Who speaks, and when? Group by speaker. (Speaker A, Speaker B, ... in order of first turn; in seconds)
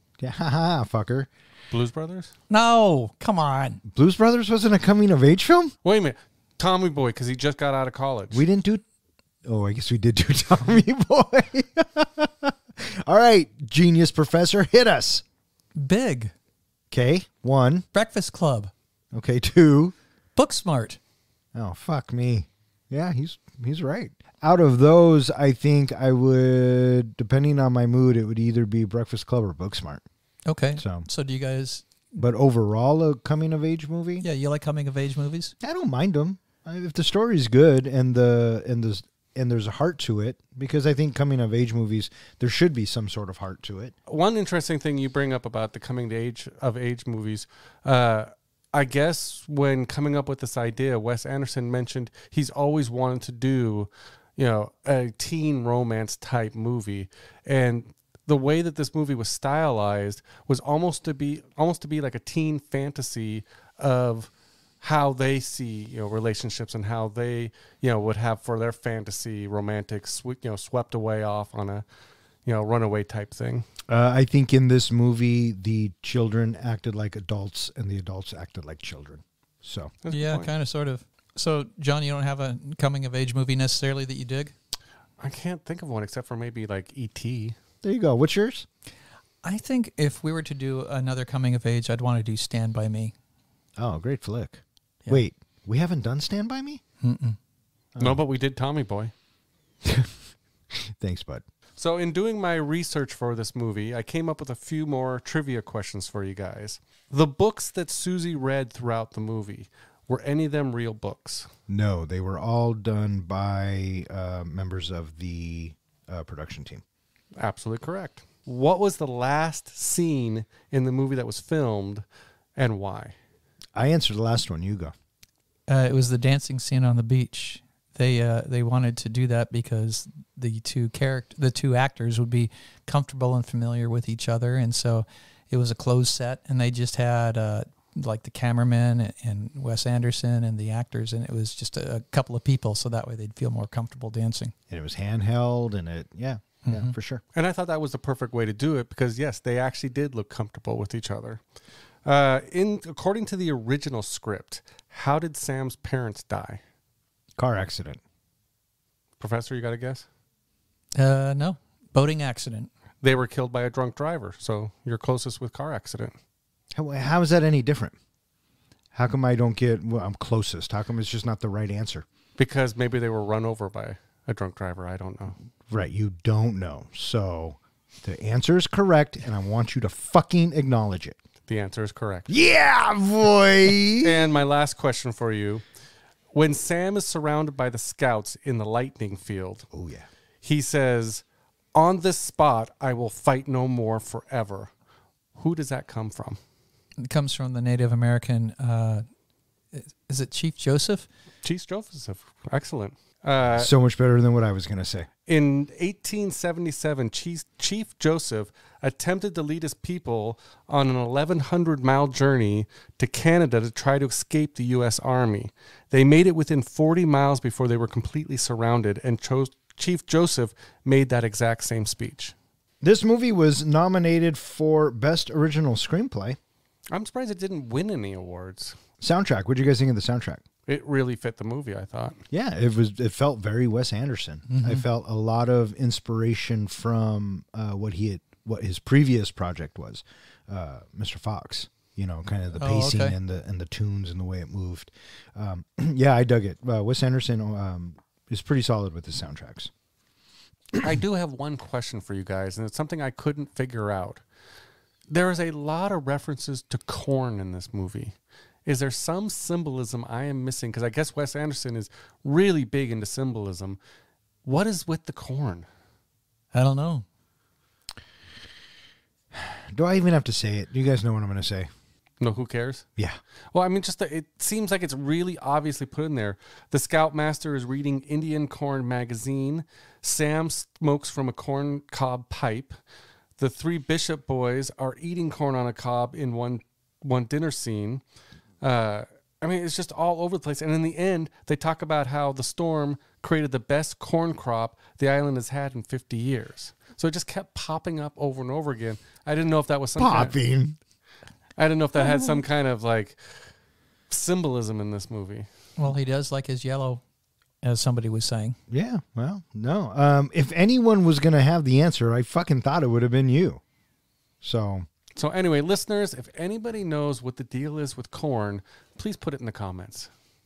Speaker A: 0.2-1.3, 3.9-5.7, 8.3-8.8, 9.4-15.2, 16.9-17.9, 19.1-19.9, 21.5-30.0, 30.8-31.1, 32.2-34.2, 35.6-43.9, 73.9-79.9, 87.8-88.7, 93.8-96.8, 99.8-100.2, 100.7-101.4, 111.7-116.8, 123.8-124.9, 144.7-147.2, 157.4-158.0, 166.7-167.9, 168.9-172.1, 175.7-181.2, 182.3-184.2, 189.7-190.1, 203.6-205.1, 222.8-226.4, 229.0-230.4, 232.3-249.7, 269.3-271.7, 300.0-300.8, 308.7-313.6, 314.4-314.9
Speaker B: 1.7-2.3, 5.8-8.4, 44.1-64.3, 64.8-71.8, 72.5-73.7, 80.0-80.5, 85.2-87.6, 98.0-99.1, 101.8-111.5, 117.4-122.0, 122.6-123.2, 147.3-151.4, 152.1-156.6, 159.2-160.1, 163.0-166.2, 172.4-175.4, 181.5-182.3, 183.9-185.6, 186.3-189.7, 190.4-191.2, 191.8-194.7, 195.4-196.4, 201.4-203.7, 205.3-222.3, 226.9-228.8, 230.7-232.2, 250.8-254.2, 255.1-263.8, 264.4-265.7, 272.2-272.9, 273.5-282.8, 283.4-288.0, 288.6-300.4, 301.6-303.4, 304.1-305.5, 315.2-320.1
Speaker C: 2.5-3.8, 15.8-16.3, 17.9-18.7, 20.4-21.0, 30.5-31.9, 34.2-35.5, 80.1-84.5, 89.4-93.1, 97.0-97.4, 125.7-144.5, 146.7-146.9, 161.0-162.7, 197.0-199.1, 199.7-201.1, 234.5-234.8, 242.6-243.2, 266.5-267.1, 305.8-307.0, 307.6-308.6